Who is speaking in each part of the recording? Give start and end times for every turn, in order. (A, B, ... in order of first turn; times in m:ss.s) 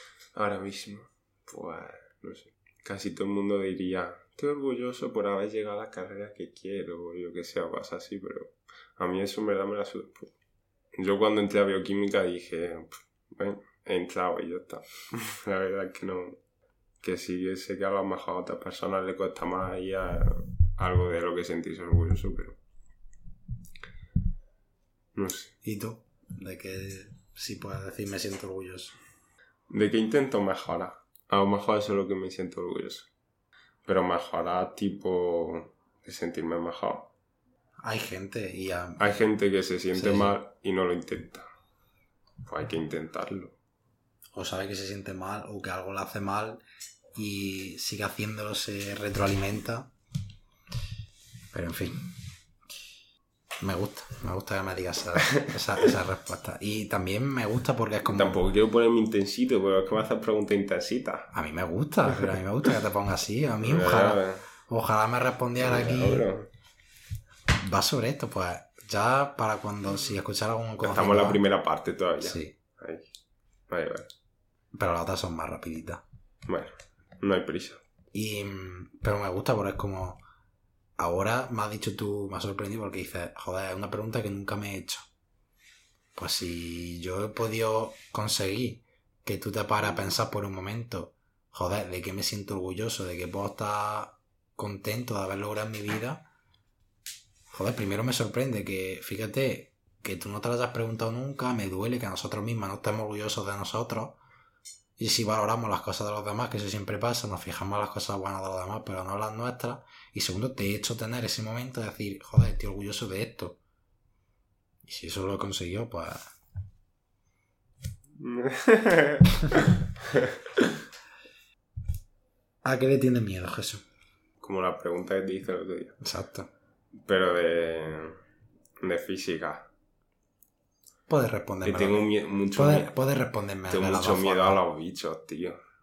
0:00.3-0:10.3 A
0:11.0-0:16.4 A
0:17.0-0:22.6 A
0:25.1-0:25.5 A
0:25.6-0:29.0 B
0:29.7-0:33.1 A
0:33.8-0:37.1 A
0:37.8-0:39.0 B
0:39.0-0:41.4 A
0:39.9-0:40.3 B
0:42.4-0:43.5 A
0:44.3-0:46.6 B
0:47.2-0:49.9 B
0:51.5-0:52.1 B
0:53.6-0:58.4 B
0:58.0-1:01.3 A
1:01.3-1:06.3 B
1:03.6-1:04.5 A
1:05.6-1:06.5 A
1:07.6-1:11.4 B
1:10.8-1:13.1 A
1:12.2-1:12.5 B
1:13.7-1:14.1 A
1:14.7-1:16.0 B
1:16.4-1:17.8 A
1:18.1-1:20.2 B
1:21.0-1:25.1 B
1:26.2-1:36.2 B
1:37.5-1:44.2 B
1:45.0-1:53.6 B
1:54.8-1:56.2 B
1:58.2-2:00.8 A
2:02.6-2:03.8 B
2:04.4-2:06.0 A
2:06.0-2:06.5 B
2:07.0-2:08.2 A
2:08.8-2:09.7 A
2:11.1-2:14.6 B
2:11.6-2:12.9 A
2:13.7-2:15.6 A